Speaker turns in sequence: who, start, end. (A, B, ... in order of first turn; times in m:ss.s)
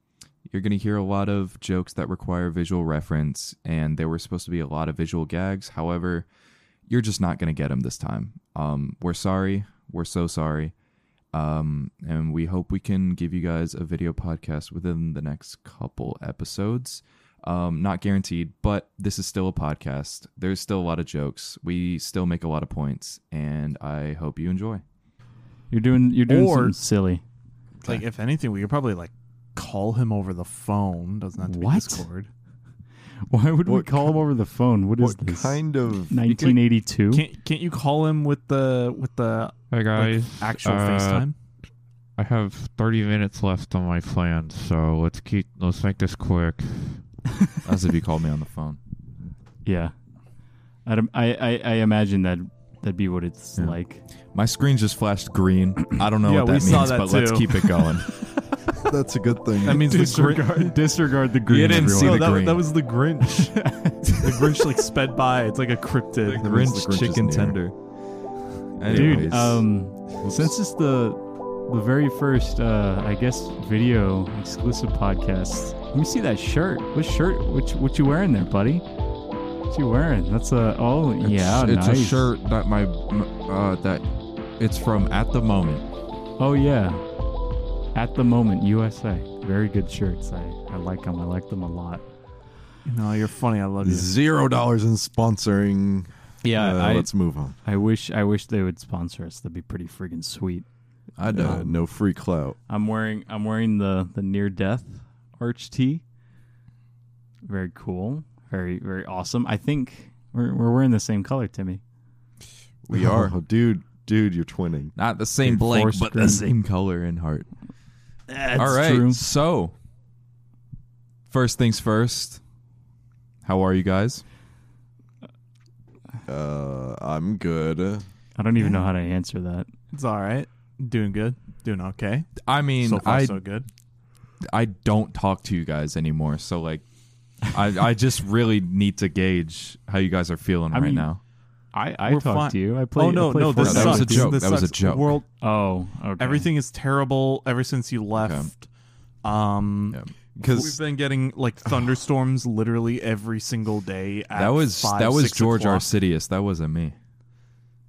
0:00.5-0:06.3 A
0:06.9-0:10.7 A
0:11.3-0:24.8 A
0:25.7-0:27.2 B
0:26.3-0:26.8 C
0:27.8-0:32.3 C
0:31.4-0:32.1 B
0:33.3-0:37.3 B
0:33.6-0:34.2 D
0:35.0-0:36.6 D
0:37.1-0:41.3 C
0:39.7-0:41.3 E
0:42.2-0:47.0 E
0:47.6-0:48.8 A
0:49.6-0:49.9 B
0:50.9-0:54.0 B
0:54.3-0:58.2 A
0:56.2-0:58.0 C
0:58.8-0:59.9 D
0:59.6-1:00.8 C
0:59.6-1:02.4 B
1:01.5-1:06.5 C
1:01.5-1:02.7 A
1:03.3-1:04.6 B
1:06.2-1:07.8 A
1:06.4-1:07.6 D
1:08.8-1:09.7 A
1:08.9-1:09.6 D
1:08.9-1:18.8 B
1:19.7-1:22.3 B
1:21.2-1:25.8 A
1:26.4-1:27.0 B
1:28.0-1:32.0 B
1:32.8-1:34.1 C
1:33.8-1:37.6 D
1:36.4-1:37.1 B
1:37.6-1:40.7 B
1:41.2-1:41.7 A
1:41.3-1:42.6 D
1:41.3-1:41.7 B
1:42.7-1:46.0 B
1:47.5-1:51.8 B
1:52.9-1:53.4 A
1:52.9-1:54.9 D
1:55.0-1:57.5 A
1:55.4-1:56.5 B
1:58.3-1:59.2 B
1:58.6-1:59.7 A
2:01.3-2:02.4 A
2:03.4-2:04.2 A
2:06.3-2:08.0 D
2:08.4-2:09.7 B
2:09.9-2:13.7 C
2:12.4-2:13.4 A
2:14.5-2:16.8 A
2:17.4-2:21.2 A
2:20.7-2:21.1 B
2:21.7-2:24.4 B
2:22.1-2:25.3 C
2:23.6-2:25.2 A
2:25.4-2:26.5 B
2:26.2-2:28.7 C
2:28.2-2:28.5 A
2:29.2-2:35.9 C
2:30.4-2:30.8 D
2:34.4-2:37.0 A